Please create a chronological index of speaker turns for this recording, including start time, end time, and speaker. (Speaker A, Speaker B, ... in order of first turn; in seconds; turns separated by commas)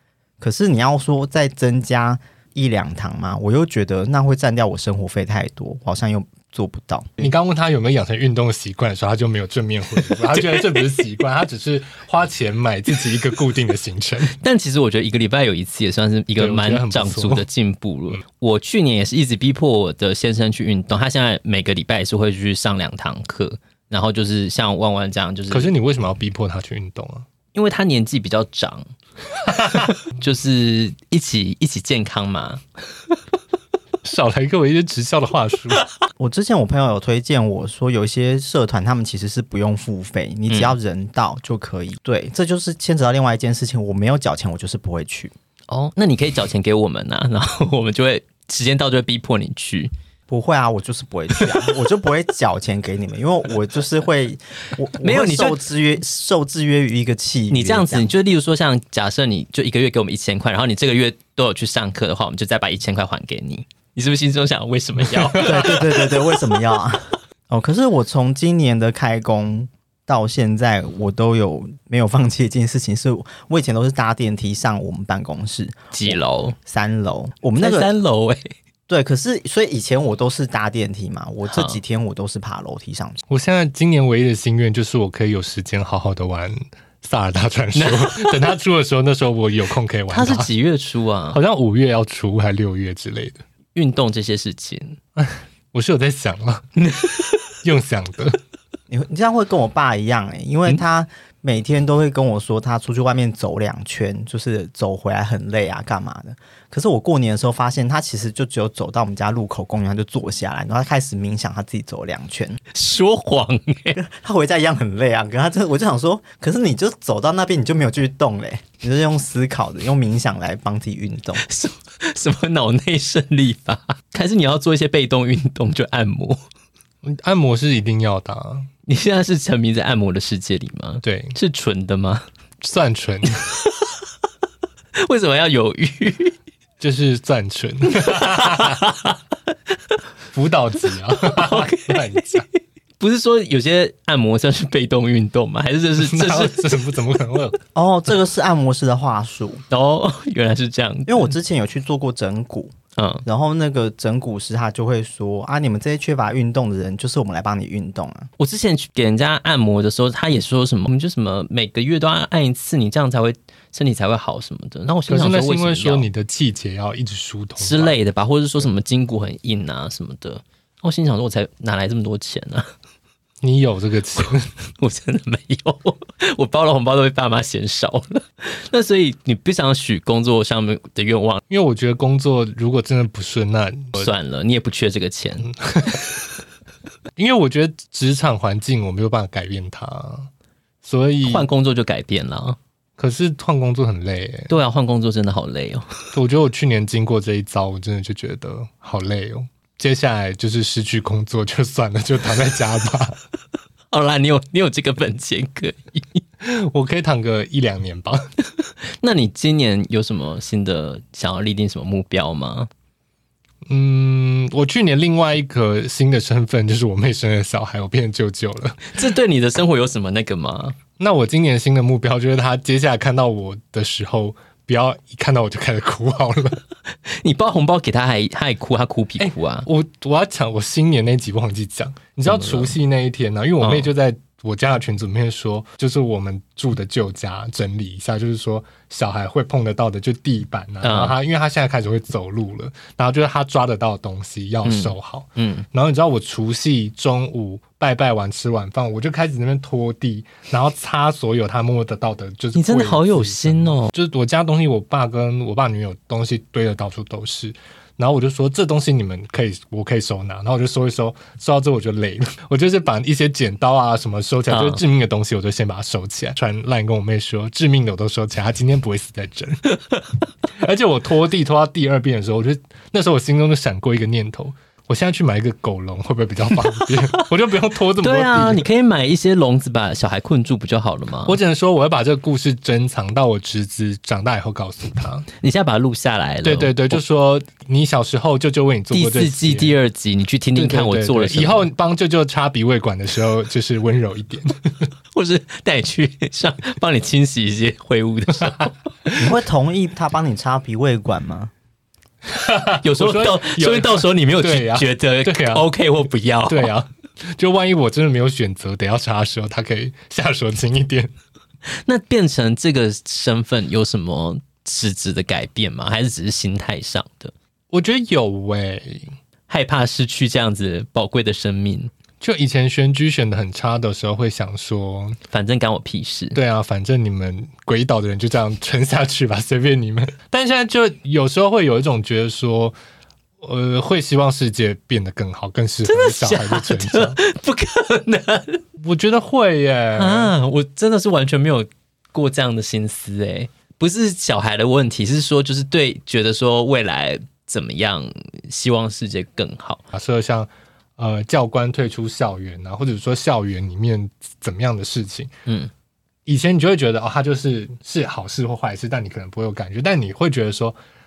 Speaker A: 0.4-7.3, Speaker B: 7.2-14.4, Speaker C: 10.1-11.0, Speaker C: 14.4-25.7, Speaker B: 16.4-17.5, Speaker B: 25.5-27.3, Speaker C: 27.5-28.9, Speaker B: 29.5-29.9, Speaker C: 29.7-32.6, Speaker B: 34.0-35.9, Speaker A: 36.2-45.3, Speaker C: 40.5-40.8, Speaker C: 45.7-49.9, Speaker A: 50.3-58.1, Speaker C: 55.0-55.6, Speaker C: 57.5-66.3, Speaker B: 65.1-65.9, Speaker A: 65.4-77.9, Speaker C: 75.9-76.5, Speaker C: 77.6-78.5, Speaker A: 78.9-83.2, Speaker C: 81.5-81.8, Speaker B: 83.3-90.5, Speaker C: 87.8-88.4, Speaker C: 90.1-91.4, Speaker B: 91.3-93.4, Speaker C: 93.8-95.0, Speaker B: 95.2-96.7, Speaker C: 96.8-97.3, Speaker B: 97.6-98.4, Speaker A: 98.9-112.6, Speaker C: 112.7-114.0, Speaker A: 114.0-121.5, Speaker C: 121.4-126.4, Speaker B: 127.0-128.7, Speaker C: 128.9-132.2, Speaker B: 131.0-131.4, Speaker B: 132.6-133.4, Speaker C: 135.0-136.4, Speaker B: 136.8-138.8, Speaker C: 137.9-139.2, Speaker B: 140.3-142.5, Speaker C: 141.1-142.5, Speaker C: 143.0-146.8, Speaker B: 146.0-147.6, Speaker A: 147.8-149.6, Speaker C: 149.7-151.3, Speaker A: 151.1-152.7, Speaker C: 153.0-153.2, Speaker A: 153.3-158.3, Speaker C: 158.4-166.1, Speaker B: 165.1-167.9, Speaker C: 167.6-172.7, Speaker B: 173.4-174.5, Speaker C: 174.8-181.4, Speaker B: 181.5-184.1, Speaker C: 184.0-185.5, Speaker B: 185.6-186.1, Speaker B: 187.2-190.3, Speaker B: 190.8-191.5, Speaker C: 191.2-192.6, Speaker B: 193.0-194.5, Speaker C: 194.5-196.0, Speaker B: 196.1-203.2, Speaker C: 203.9-206.2, Speaker B: 206.4-208.3, Speaker C: 209.0-212.7, Speaker B: 213.7-219.1, Speaker C: 218.9-220.8, Speaker B: 221.0-226.6, Speaker C: 227.1-229.7, Speaker B: 229.2-269.7, Speaker C: 232.3-232.7, Speaker C: 233.6-233.9, Speaker C: 240.8-241.2, Speaker C: 244.7-245.7, Speaker C: 252.6-253.9, Speaker C: 264.5-264.8, Speaker B: 270.6-278.6, Speaker C: 276.7-277.3, Speaker C: 278.0-281.4, Speaker B: 281.3-285.3, Speaker C: 285.4-287.0, Speaker B: 286.4-289.8, Speaker C: 288.9-291.7, Speaker B: 290.6-294.9, Speaker C: 295.1-299.1, Speaker A: 299.1-301.5, Speaker B: 302.3-305.7, Speaker C: 302.8-306.7, Speaker B: 306.5-311.1, Speaker C: 311.9-317.3, Speaker B: 317.7-319.1, Speaker C: 319.5-321.9, Speaker B: 322.2-325.2, Speaker C: 325.3-326.4, Speaker B: 326.3-332.8, Speaker B: 333.4-337.2, Speaker C: 335.9-338.6, Speaker B: 338.8-340.3, Speaker C: 340.0-349.8, Speaker B: 349.9-355.3, Speaker C: 355.5-355.7, Speaker B: 356.3-360.8